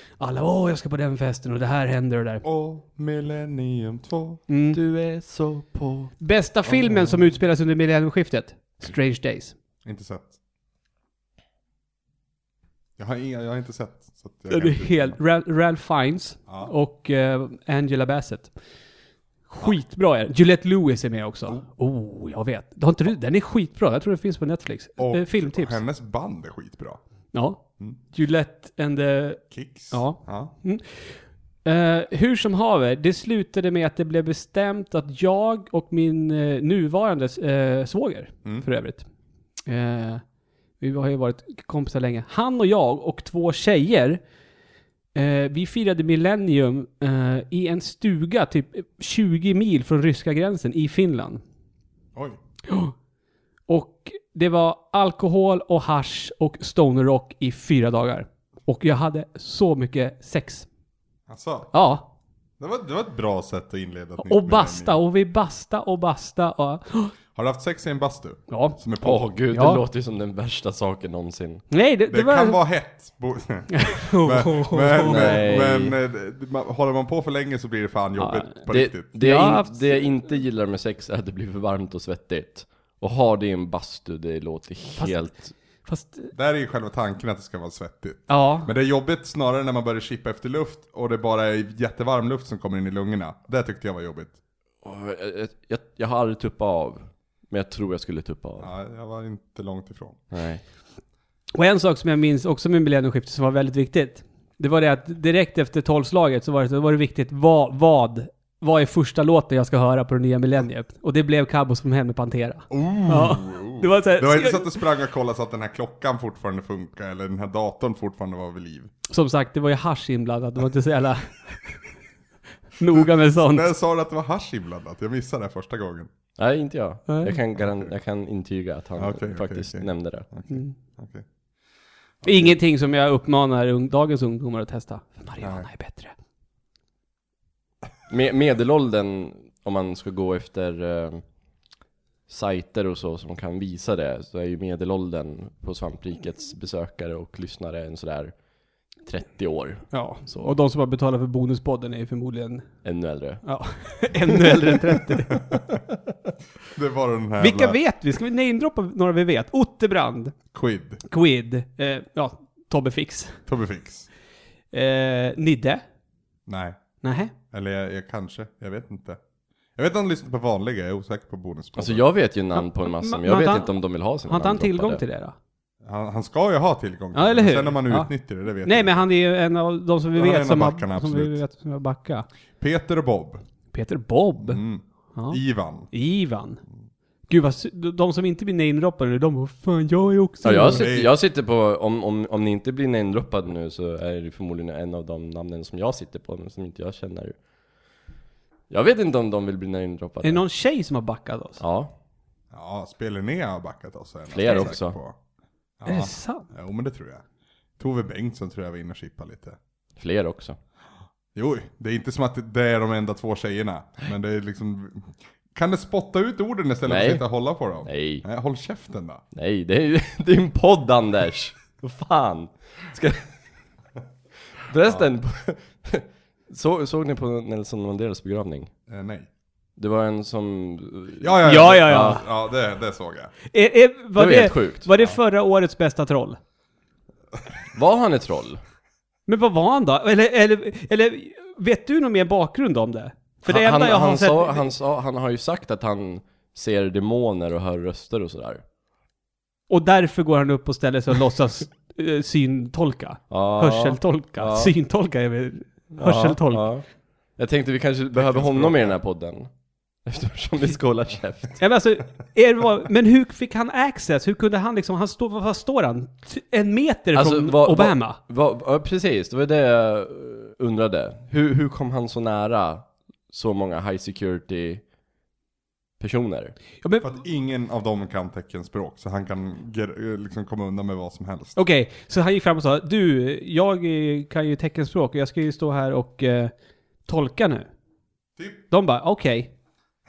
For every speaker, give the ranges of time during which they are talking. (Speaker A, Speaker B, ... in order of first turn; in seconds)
Speaker A: 0.2-2.4, 4.5-4.8, 6.2-9.6, 14.5-18.5, 19.5-25.8, 27.3-39.0, 39.7-40.2, 40.8-44.2, 45.1-51.4, 52.7-52.9, 53.7-60.7, 61.7-62.1, 64.2-67.1, 68.5-68.8, 69.5-69.8, 71.7-72.6, 73.7-75.5, 78.2-78.6, 79.1-80.0, 85.0-85.2, 85.8-86.3, 88.3-88.7, 101.5-114.8, 119.1-121.8, 122.8-123.7, 127.1-127.4, 130.5-130.8, 132.2-136.1, 149.9-152.8, 153.4-155.4, 157.4-160.3, 161.1-163.4, 164.7-165.8, 167.0-167.3, 172.6-173.7, 174.3-175.3, 177.1-178.1, 178.6-182.3, 183.7-184.6, 185.9-186.6, 187.3-190.9, 200.2-201.6, 204.4-204.7, 205.9-206.5, 231.4-232.2, 233.5-236.4, 239.3-244.7, 249.7-256.7, 261.6-268.2, 276.8-277.1, 281.6-286.5, 287.1-287.7, 288.7-289.5
Speaker B: 2.4-4.4, 6.7-7.2, 9.8-10.3, 13.0-15.2, 25.0-27.0, 29.5-30.5, 61.3-61.7, 62.6-65.0, 67.3-69.3, 72.1-79.1, 86.3-94.4, 98.6-100.2, 112.7-118.9, 123.4-126.1, 127.6-127.9, 129.0-131.2, 132.2-132.6, 135.4-135.7, 155.5-155.8, 156.7-157.8, 160.5-161.0, 163.5-164.1, 166.5-166.8, 167.5-169.2, 169.8-172.1, 175.8-179.1, 180.2-181.4, 182.6-183.4, 184.4-185.9, 190.6-191.2, 202.5-205.2, 205.8-207.2, 207.8-209.6, 211.3-219.2, 228.9-229.3, 231.2-233.3, 258.1-259.0, 277.0-281.6, 288.4-288.6
Speaker C: 4.7-6.2, 69.0-71.7, 75.0-76.0, 78.7-85.5, 94.8-98.7, 100.3-100.6, 126.4-130.3, 138.1-141.2, 142.3-148.3, 149.0-150.5, 152.8-153.4, 171.8-175.0, 190.4-197.4, 198.7-200.4, 201.6-201.9, 204.3-205.0, 210.0-210.6, 216.9-217.2, 217.8-218.2, 219.3-223.3, 224.7-228.7, 229.8-232.2, 234.2-234.9, 237.7-238.6, 243.5-248.6, 253.3-254.7, 256.0-259.5, 260.1-261.6, 267.1-274.8, 276.0-276.6